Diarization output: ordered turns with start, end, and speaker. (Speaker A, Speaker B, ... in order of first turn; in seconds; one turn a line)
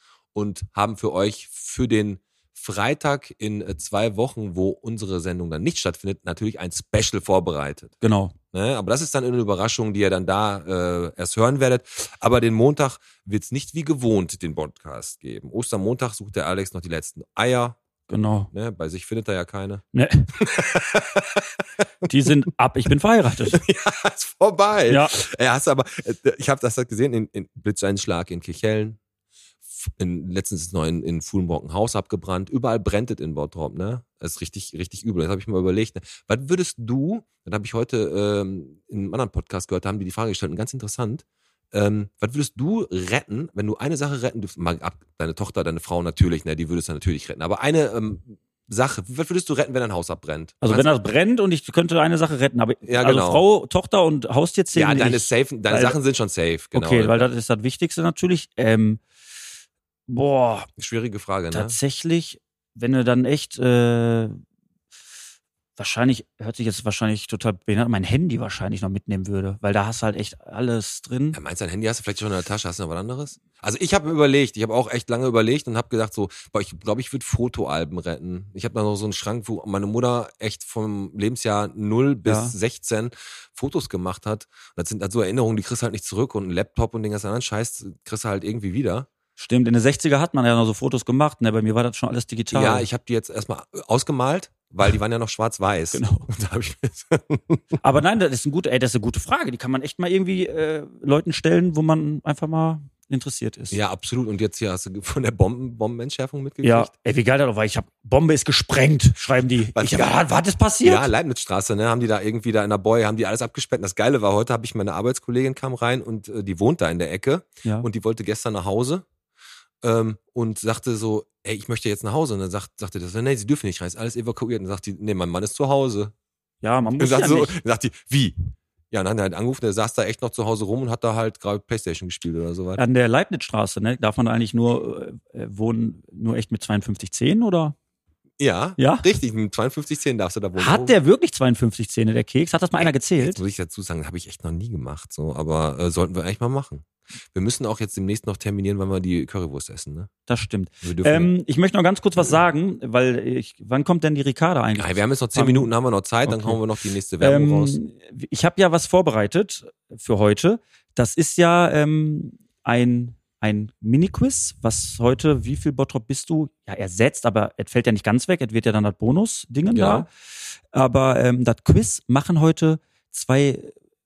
Speaker A: 0.3-7.9
Speaker B: 8.0-8.3
Speaker A: 8.5-17.8
Speaker B: 18.1-18.5
Speaker A: 18.5-19.8
Speaker B: 19.9-20.3
Speaker A: 20.4-22.1
Speaker B: 22.1-23.6
Speaker A: 23.5-29.0
Speaker B: 24.9-25.2
Speaker A: 29.8-50.9
Speaker B: 50.6-56.0
Speaker A: 52.8-53.4
Speaker A: 54.7-57.3
Speaker B: 56.7-59.0
Speaker B: 60.1-60.7
Speaker A: 60.8-61.8
Speaker B: 61.5-64.4
Speaker B: 65.8-71.4
Speaker A: 71.3-89.1
Speaker B: 82.2-82.5
Speaker B: 89.4-92.9
Speaker A: 92.5-97.8
Speaker B: 95.9-96.3
Speaker B: 97.8-103.8
Speaker A: 103.7-106.9
Speaker B: 106.6-111.1
Speaker A: 109.7-110.2
Speaker A: 110.8-119.0
Speaker A: 119.8-126.1
Speaker B: 126.6-127.5
Speaker A: 127.0-128.3
Speaker A: 128.9-132.8
Speaker B: 132.8-137.7
Speaker A: 138.4-140.9
Speaker B: 138.8-139.0
Speaker B: 140.6-143.4
Speaker A: 142.8-150.1
Speaker B: 150.3-155.7
Speaker A: 150.8-151.3
Speaker A: 154.8-157.8
Speaker B: 156.2-156.6
Speaker B: 157.2-170.1
Speaker A: 169.7-170.1
Speaker B: 170.7-173.7